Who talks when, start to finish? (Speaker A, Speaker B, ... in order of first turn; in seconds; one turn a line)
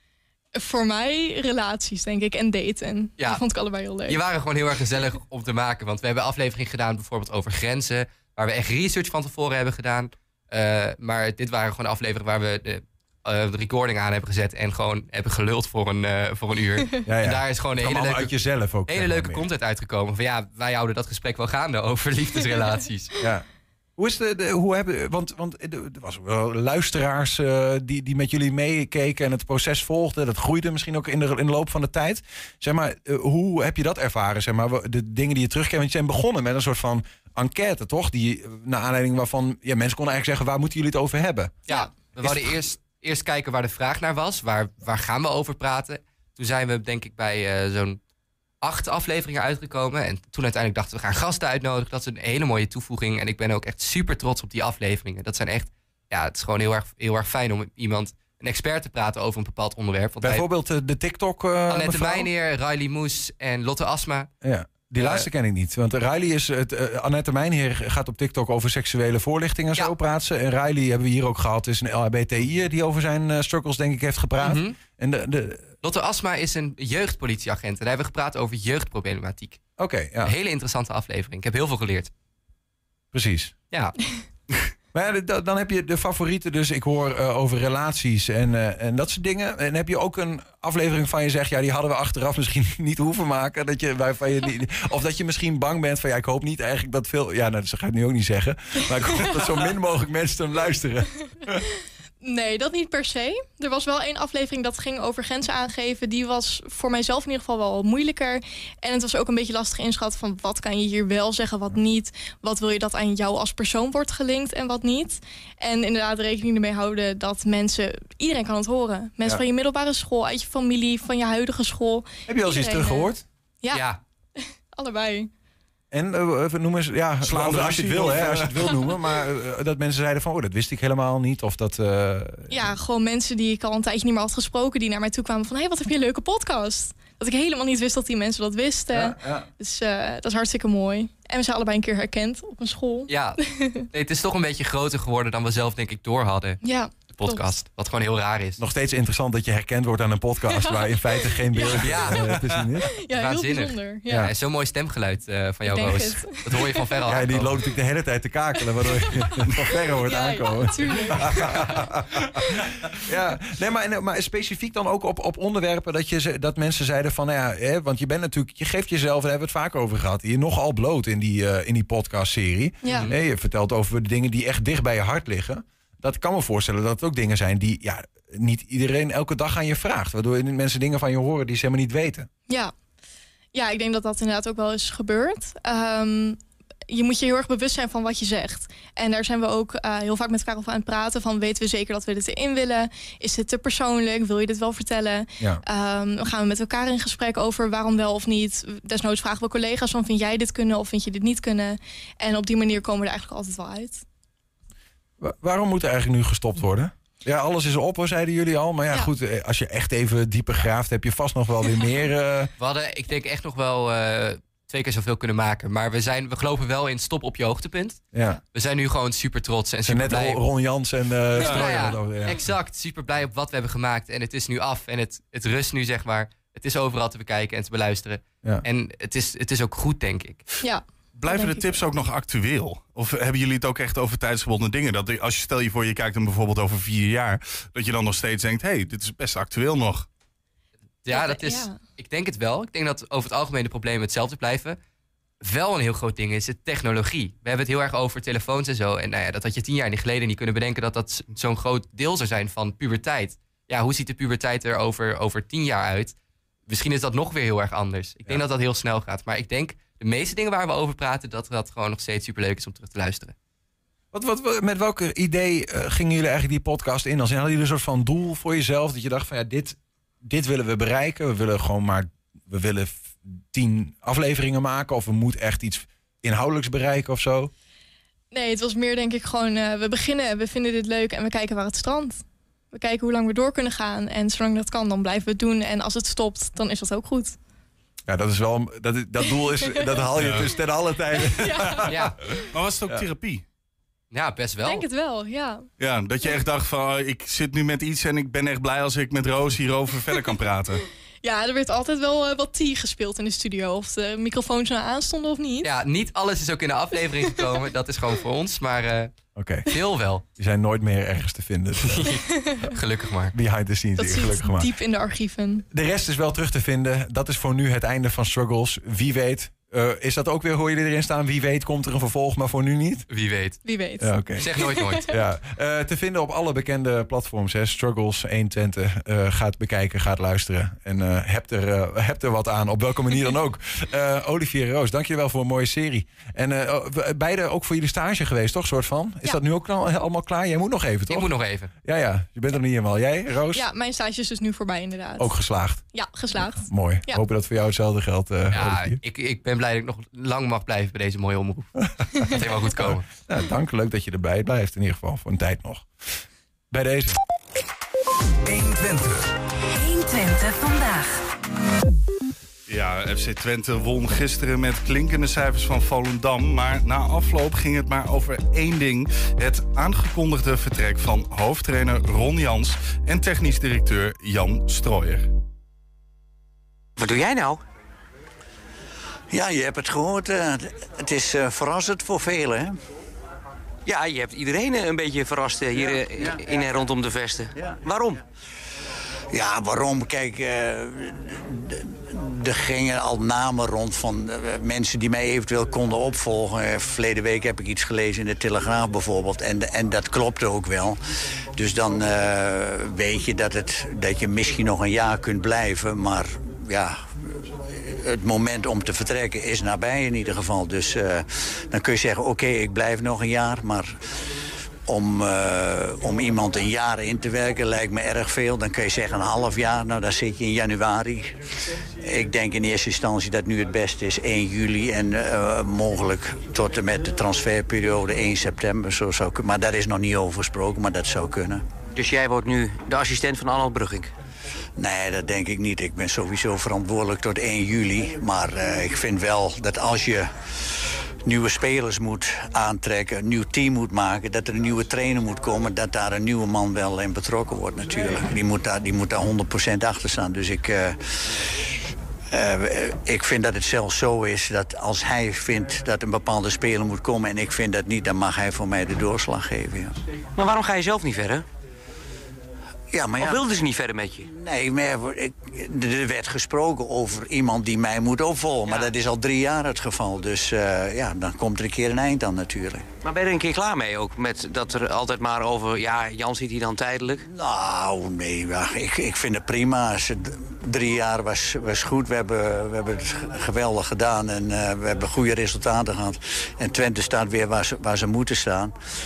Speaker A: 0.5-4.2
Speaker B: 3.2-3.4
Speaker B: 4.1-18.3
Speaker C: 17.1-19.4
Speaker B: 18.9-23.1
Speaker C: 23.2-23.4
Speaker C: 24.0-41.5
Speaker B: 41.7-48.0
Speaker C: 42.2-42.6
Speaker B: 48.6-60.4
Speaker C: 60.2-62.3
Speaker B: 61.7-64.3
Speaker C: 64.4-75.7
Speaker B: 65.0-65.3
Speaker B: 74.4-74.8
Speaker B: 75.8-79.6
Speaker C: 79.8-80.3
Speaker B: 80.2-82.1
Speaker C: 83.1-83.5
Speaker C: 84.9-101.6
Speaker A: 102.2-125.3
Speaker C: 122.3-123.2
Speaker B: 123.7-124.0
Speaker C: 125.9-132.7
Speaker D: 127.2-128.8
Speaker A: 132.5-143.9
Speaker C: 138.9-139.5
Speaker B: 143.1-143.4
Speaker B: 143.9-148.6
Speaker A: 146.6-147.6
Speaker C: 148.6-152.9
Speaker A: 150.5-154.3
Speaker B: 151.7-152.4
Speaker B: 153.1-157.6
Speaker A: 155.6-157.0
Speaker C: 157.0-182.3
Speaker A: 158.6-162.7
Speaker A: 172.8-173.1
Speaker B: 172.9-173.1
Speaker A: 182.5-182.7
Speaker A: 183.5-204.0
Speaker C: 205.2-212.5
Speaker B: 212.6-218.0
Speaker C: 218.1-218.4
Speaker B: 218.5-220.4
Speaker C: 219.8-222.4
Speaker D: 221.4-221.7
Speaker B: 221.4-230.5
Speaker A: 230.6-231.8
Speaker D: 231.1-240.1
Speaker B: 241.0-244.8
Speaker A: 241.1-241.8
Speaker B: 245.4-256.1
Speaker B: 256.7-263.3
Speaker C: 264.1-277.5
Speaker A: 278.3-287.4
Speaker C: 288.1-292.1
Speaker A: 289.7-290.0
Speaker D: 290.2-290.5
Speaker A: 291.2-291.9
Speaker D: 292.5-293.4
Speaker B: 294.1-294.9
Speaker A: 294.6-295.7
Speaker D: 295.8-300.8
Speaker A: 301.2-305.7
Speaker B: 305.6-309.1
Speaker C: 309.4-309.7
Speaker B: 309.7-310.2
Speaker C: 310.3-312.1
Speaker B: 312.7-313.3
Speaker C: 313.3-314.7
Speaker A: 314.0-315.6
Speaker C: 315.7-323.1
Speaker B: 323.1-323.6
Speaker A: 323.6-325.1
Speaker C: 324.0-341.3
Speaker B: 324.4-325.1
Speaker B: 341.1-341.7
Speaker C: 341.8-343.6
Speaker A: 343.5-345.4
Speaker C: 345.2-349.0
Speaker A: 345.9-347.2
Speaker B: 348.5-353.1
Speaker C: 352.2-355.9
Speaker C: 356.7-357.2
Speaker E: 358.4-361.2
Speaker D: 362.7-375.3
Speaker F: 377.0-377.6
Speaker G: 379.3-382.7
Speaker F: 383.8-388.2
Speaker G: 389.3-401.0
Speaker G: 401.6-407.0
Speaker G: 407.7-413.9
Speaker G: 414.9-421.4
Speaker G: 422.0-431.6
Speaker F: 431.9-434.1
Speaker G: 434.8-440.3
Speaker G: 441.2-451.7
Speaker G: 452.3-459.9
Speaker F: 460.4-461.4
Speaker G: 462.9-463.4
Speaker F: 463.2-464.3
Speaker G: 464.3-472.9
Speaker F: 473.0-477.2
Speaker G: 477.3-488.7